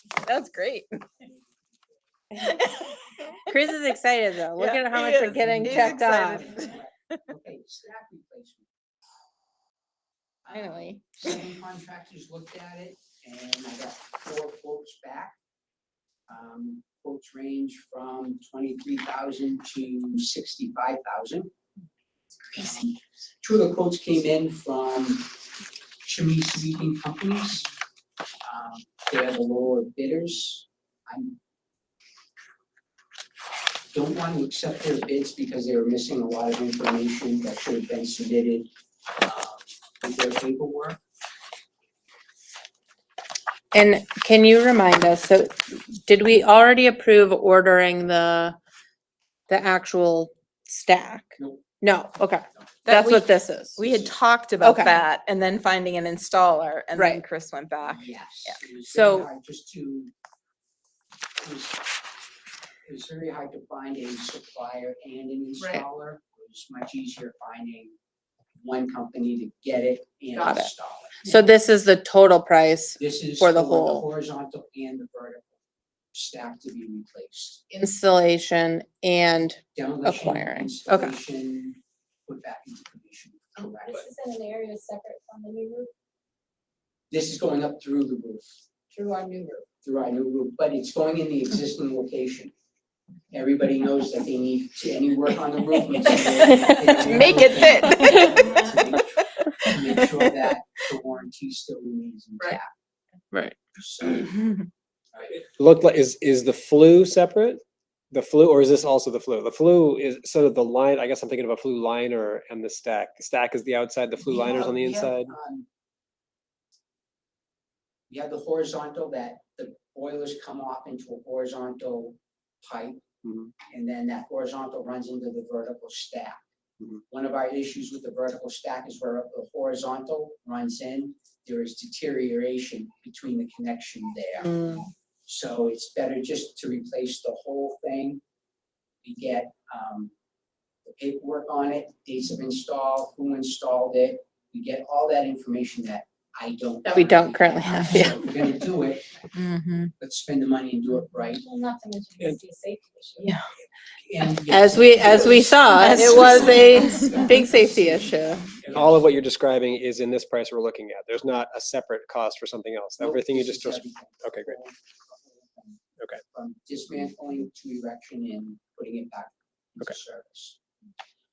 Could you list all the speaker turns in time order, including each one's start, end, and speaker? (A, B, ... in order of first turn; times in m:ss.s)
0:00.2-0:00.9 A
0:01.2-0:02.0 B
0:02.4-0:03.4 A
0:03.5-0:06.5 C
0:04.6-0:06.8 A
0:05.3-0:08.7 B
0:10.4-0:15.4 B
0:10.6-0:11.1 A
0:16.3-0:21.5 B
0:22.5-0:25.3 B
0:26.0-0:27.7 B
0:28.4-0:31.4 B
0:33.9-0:41.0 B
0:43.7-0:48.6 C
0:49.5-0:53.8 C
0:51.4-0:51.7 B
0:52.9-0:58.6 A
0:53.8-0:54.1 B
0:54.6-0:55.0 C
0:57.0-0:57.2 C
0:57.8-1:00.1 B
0:58.9-0:59.3 C
1:01.4-1:01.9 B
1:02.8-1:08.0 B
1:08.6-1:11.3 B
1:10.4-1:10.7 C
1:11.2-1:14.1 C
1:13.0-1:15.6 B
1:16.1-1:17.6 B
1:17.7-1:21.1 C
1:19.8-1:24.1 B
1:23.7-1:25.9 D
1:27.1-1:28.6 B
1:28.9-1:29.7 D
1:29.8-1:32.5 B
1:33.3-1:42.7 B
1:36.2-1:38.7 A
1:39.9-1:40.1 A
1:43.3-1:43.6 C
1:43.8-1:44.6 B
1:45.1-1:45.4 B
1:45.3-1:47.6 E
1:48.1-1:55.3 E
1:54.2-1:55.7 B
1:58.1-2:03.0 B
2:03.2-2:03.5 E
2:03.7-2:06.4 B
2:07.1-2:18.2 B
2:14.4-2:14.8 C
2:19.0-2:20.1 B
2:20.8-2:29.1 B
2:26.9-2:28.5 C
2:29.4-2:29.9 A
2:30.0-2:31.4 B
2:31.4-2:33.3 D
2:33.9-2:39.0 B
2:34.5-2:38.4 C
2:35.7-2:37.2 A
2:38.7-2:44.6 E
2:43.0-2:50.6 B